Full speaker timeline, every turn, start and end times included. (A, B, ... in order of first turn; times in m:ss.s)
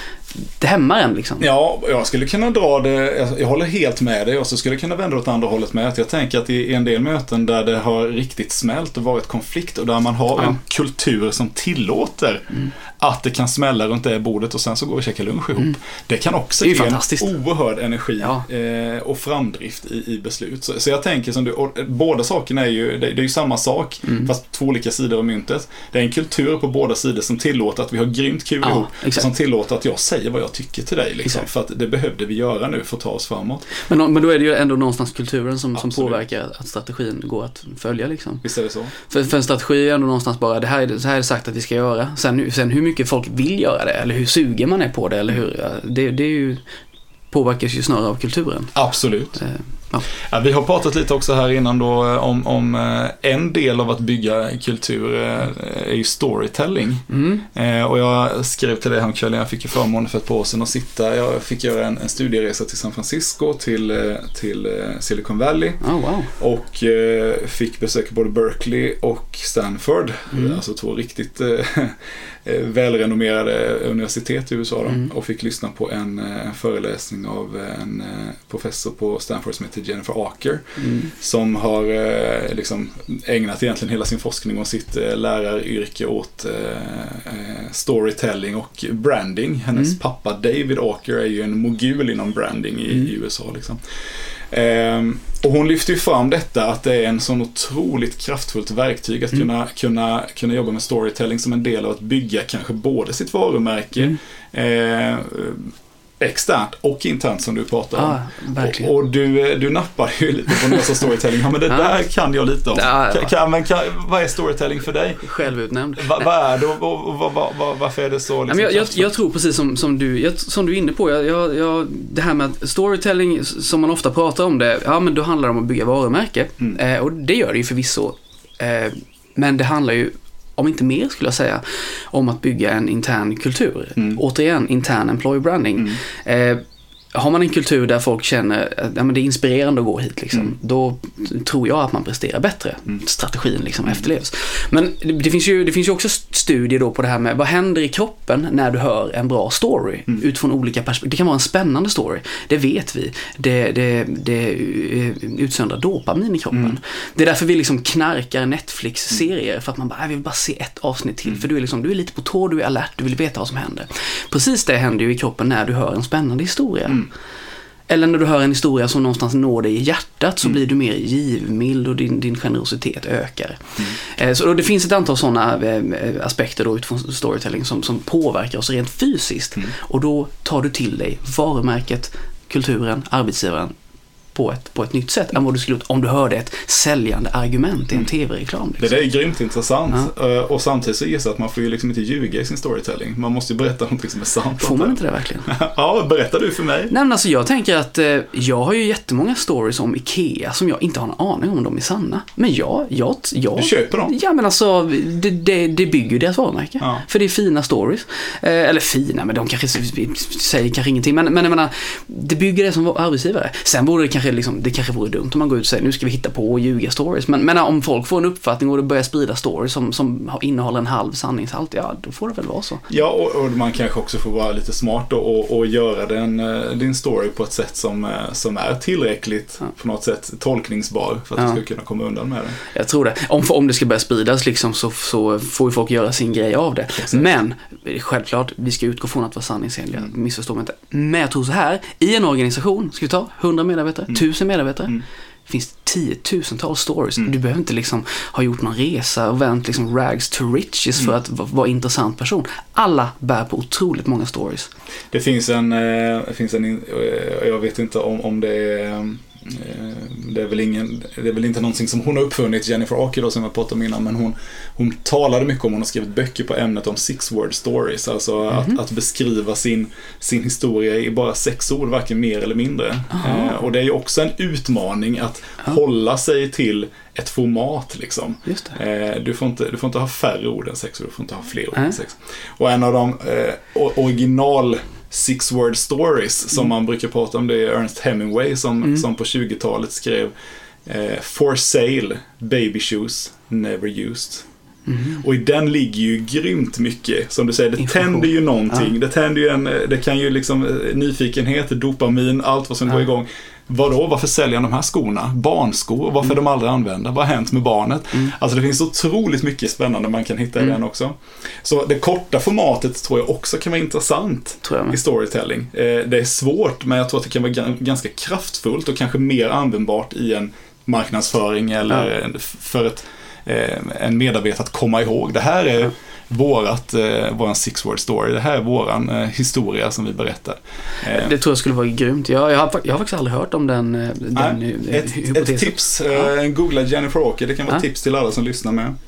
0:00.4-0:01.5 A
0:01.4-0:33.7 B
0:16.6-0:17.3 A
0:18.2-0:18.4 A
0:24.0-0:24.3 A
0:28.6-0:29.3 A
0:33.7-0:38.4 A
0:35.8-0:36.2 B
0:38.4-0:38.9 B
0:39.1-0:46.6 A
0:47.3-0:48.7 A
0:48.8-0:49.4 B
0:49.4-0:50.1 A
0:50.1-1:05.8 B
0:57.1-0:57.4 A
1:05.8-1:06.3 A
1:06.4-1:33.8 B
1:10.3-1:10.6 A
1:20.8-1:21.1 A
1:34.5-1:55.3 B
1:48.0-1:48.9 A
1:52.7-1:53.3 A
1:55.2-1:56.3 A
1:56.0-1:59.1 B
1:58.5-2:16.6 A
2:17.2-2:47.1 A
2:36.5-2:36.8 B
2:47.9-3:03.7 A
3:04.4-3:09.0 A
3:08.8-3:16.9 B
3:14.6-3:15.5 A
3:16.9-3:42.9 A
3:23.6-3:24.1 B
3:42.9-3:52.6 B
3:52.7-4:14.7 A
4:15.1-4:50.3 B
4:28.5-4:28.8 A
4:33.1-4:33.5 A
4:38.5-4:38.8 A
4:50.8-4:54.5 B
4:54.9-4:55.2 A
4:55.2-5:31.4 B
4:57.8-4:58.9 A
5:14.6-5:15.0 A
5:31.1-5:36.3 A
5:34.4-5:39.0 B